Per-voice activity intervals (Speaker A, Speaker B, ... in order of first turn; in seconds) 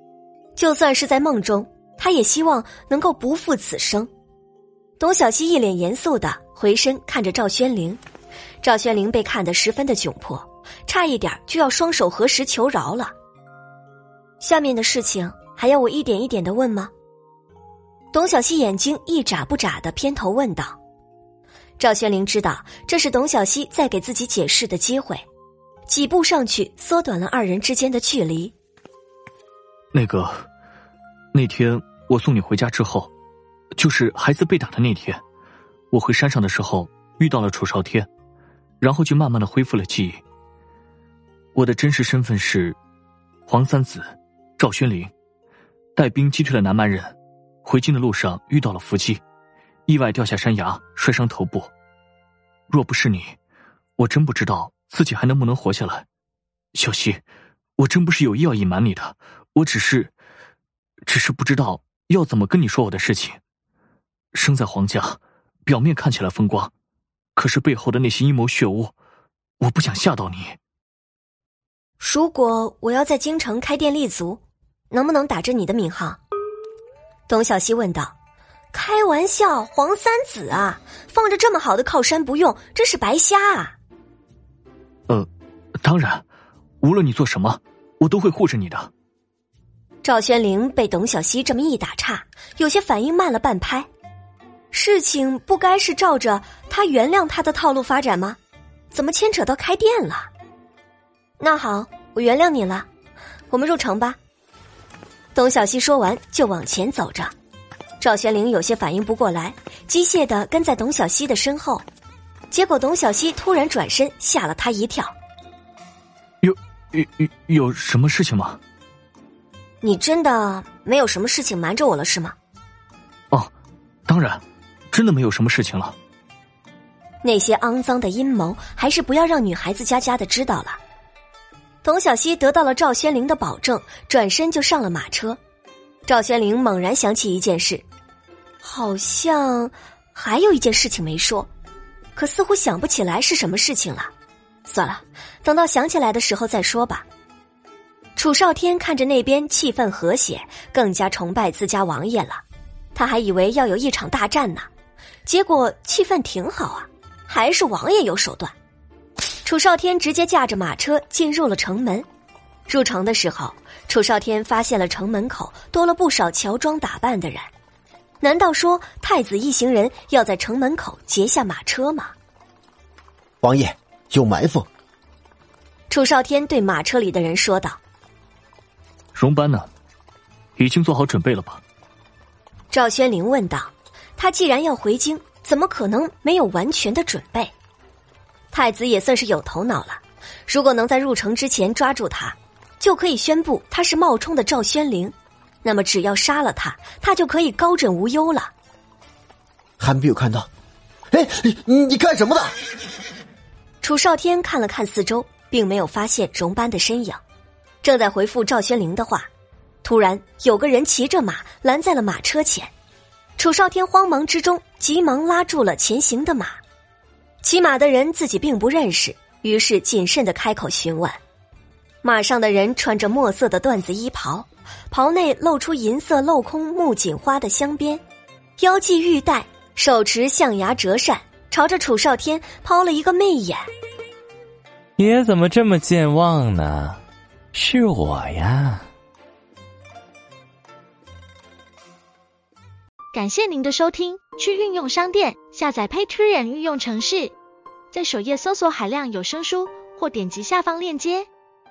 Speaker A: 0.6-4.1, 5.0-8.0, 8.6-13.1, 14.4-16.9, 18.1-20.8, 21.8-25.2, 25.9-28.5, 72.0-76.2, 77.3-78.1, 78.7-83.8, 90.0-93.9, 94.7-98.4, 98.9-100.3, 101.4-102.9, 103.5-104.2, 105.3-107.3, 108.0-111.8, 112.5-115.1, 119.8-122.3, 127.2-130.8, 131.8-135.4, 136.1-137.8, 138.6-141.5, 142.2-144.1, 144.7-147.1, 148.2-152.4, 152.9-154.7, 155.2-158.5, 159.4-162.1, 162.7-167.5, 168.2-172.1, 175.9-177.8, 182.7-187.5, 188.5-198.5, 203.8-207.2, 207.8-209.3, 209.8-212.7, 213.4-216.6, 217.4-221.2, 222.0-228.0, 228.6-233.7
Speaker B: 29.9-30.4, 31.3-33.1, 33.8-35.2, 35.9-38.1, 38.8-40.2, 41.5-42.8, 43.5-45.1, 46.0-49.2, 49.9-51.7, 52.7-53.4, 54.0-56.0, 56.7-57.2, 57.8-60.1, 61.0-63.4, 64.3-66.7, 67.3-68.9, 69.6-70.6, 85.8-86.2, 86.8-88.9, 116.4-118.6, 124.1-126.0, 179.1-179.7, 180.6-181.6
Speaker C: 173.4-174.7, 199.8-200.5, 201.1-202.5
Speaker D: 235.0-237.0, 237.5-238.9
Speaker E: 243.1-247.3, 247.9-251.3